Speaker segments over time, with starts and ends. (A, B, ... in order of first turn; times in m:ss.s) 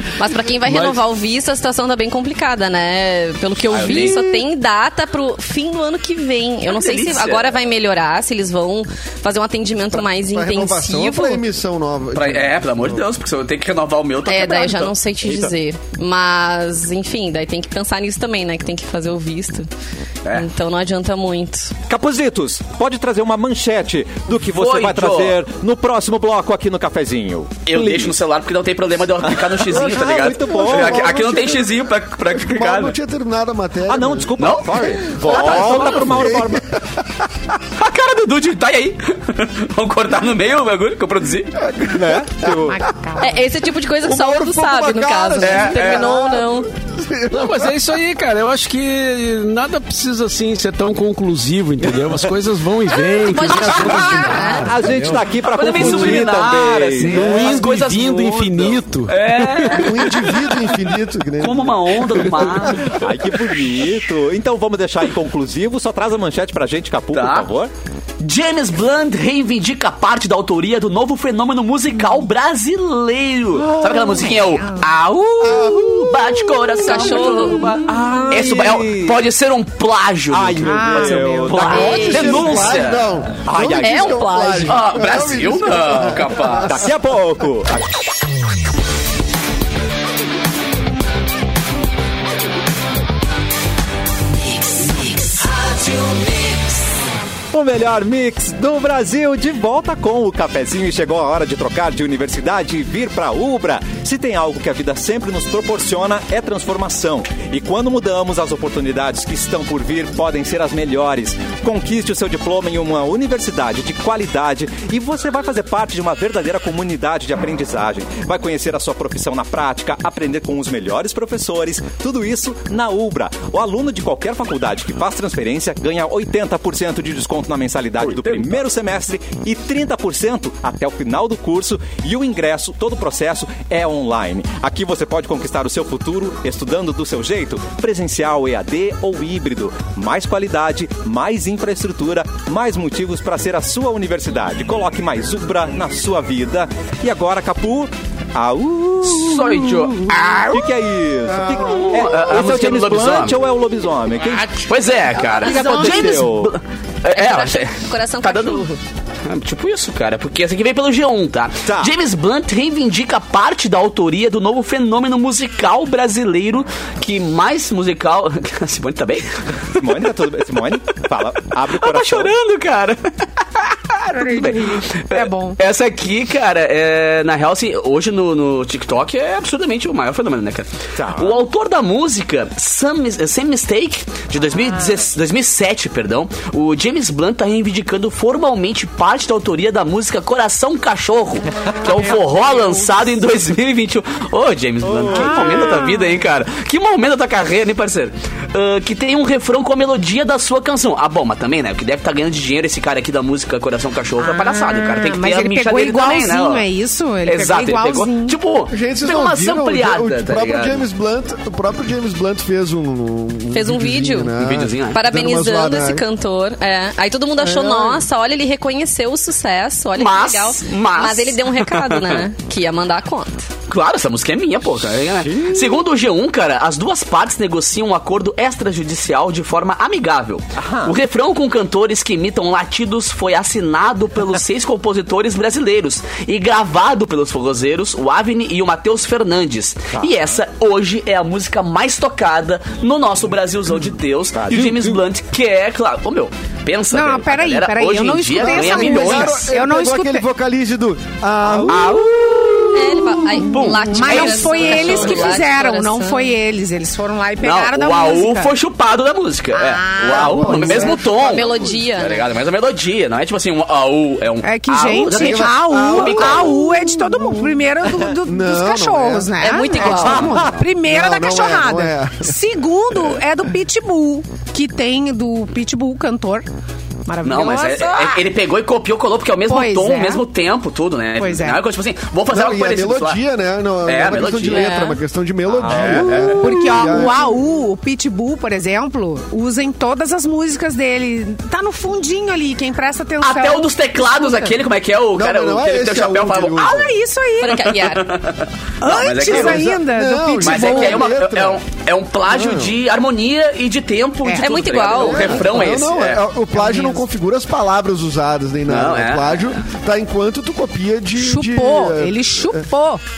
0:00.2-0:11.4 A
0:00.7-0:01.0 B
0:03.7-0:04.2 C
0:06.7-0:07.6 C
0:09.9-0:13.0 D
0:12.2-0:14.9 C
0:14.3-0:19.7 A
0:15.2-0:15.5 E
0:20.3-0:21.8 A
0:21.9-0:28.1 E
0:24.4-0:25.4 C
0:27.7-0:33.0 C
0:29.3-0:31.1 E
0:29.8-0:34.3 D
0:33.9-0:36.7 E
0:34.4-0:36.3 C
0:35.2-0:37.2 D
0:37.8-0:41.6 C
0:41.6-0:42.6 D
0:41.9-0:42.8 E
0:42.6-0:43.4 F
0:43.2-0:46.7 A
0:44.0-0:47.8 D
0:45.4-0:46.1 C
0:47.3-0:56.2 B
0:53.0-0:54.7 A
0:54.0-0:54.6 D
0:54.5-0:57.5 E
0:55.4-1:00.7 C
0:57.0-0:59.9 B
0:59.8-1:02.9 D
1:01.4-1:03.1 C
1:02.6-1:07.7 E
1:07.1-1:07.5 C
1:08.2-1:23.1 C
1:13.8-1:14.3 D
1:14.6-1:14.8 F
1:15.4-1:16.6 D
1:16.8-1:18.0 A
1:17.5-1:19.2 E
1:20.3-1:22.7 E
1:20.6-1:21.7 F
1:21.5-1:22.5 A
1:21.5-1:26.9 D
1:23.4-1:24.4 E
1:23.8-1:24.8 A
1:24.7-1:26.8 C
1:26.7-1:27.9 E
1:37.5-2:34.7 E
2:08.0-2:08.6 C
2:29.0-2:30.9 C
2:31.2-2:32.6 D
2:31.5-2:33.4 C
2:34.5-2:38.7 C
2:35.3-2:36.6 E
2:35.4-2:36.2 A
2:37.1-2:38.8 A
2:39.2-2:50.1 C
2:41.6-2:41.9 E
2:49.8-2:52.3 E
2:51.8-3:26.7 C
2:54.1-2:55.6 F
3:01.0-3:01.4 E
3:11.7-3:13.0 F
3:14.8-3:16.0 E
3:15.1-3:16.1 F
3:24.2-3:28.4 F
3:27.2-3:30.8 C
3:28.7-3:36.0 D
3:33.5-3:34.3 A
3:34.4-3:35.0 C
3:34.9-3:43.5 A
3:37.4-3:38.0 D
3:40.0-3:42.2 C
3:43.7-4:09.4 C
3:45.3-3:45.6 E
3:50.6-3:51.0 E
4:04.3-4:05.0 E
4:06.9-4:10.2 F
4:08.4-4:12.1 D
4:11.6-4:11.9 E
4:11.7-4:15.4 C
4:12.7-4:16.3 A
4:13.9-4:18.6 F
4:17.4-4:26.3 C
4:19.5-4:21.0 F
4:20.1-4:21.8 D
4:21.1-4:22.3 A
4:24.4-4:36.5 F
4:25.1-4:27.6 D
4:28.2-4:32.3 D
4:29.4-4:30.4 A
4:30.0-4:30.6 E
4:37.1-4:38.2 F
4:37.2-4:43.2 C
4:39.5-4:40.2 F
4:41.2-4:41.6 F
4:42.3-4:47.4 D
4:43.8-4:44.8 C
4:44.5-4:45.0 A
4:45.5-4:46.4 E
4:45.7-4:46.5 C
4:46.4-4:54.6 F
4:53.2-4:56.7 C
4:55.1-4:56.9 D
4:56.6-4:57.8 F
4:57.4-4:58.1 A
4:57.7-4:59.7 C
4:58.8-5:01.1 F
4:59.2-5:01.6 D
5:00.4-5:06.2 C
5:02.3-5:02.8 D
5:04.2-5:04.7 F
5:04.4-5:05.4 A
5:04.9-5:12.7 D
5:05.2-5:05.7 F
5:06.5-5:07.0 F
5:08.7-5:09.6 C
5:11.2-5:13.0 F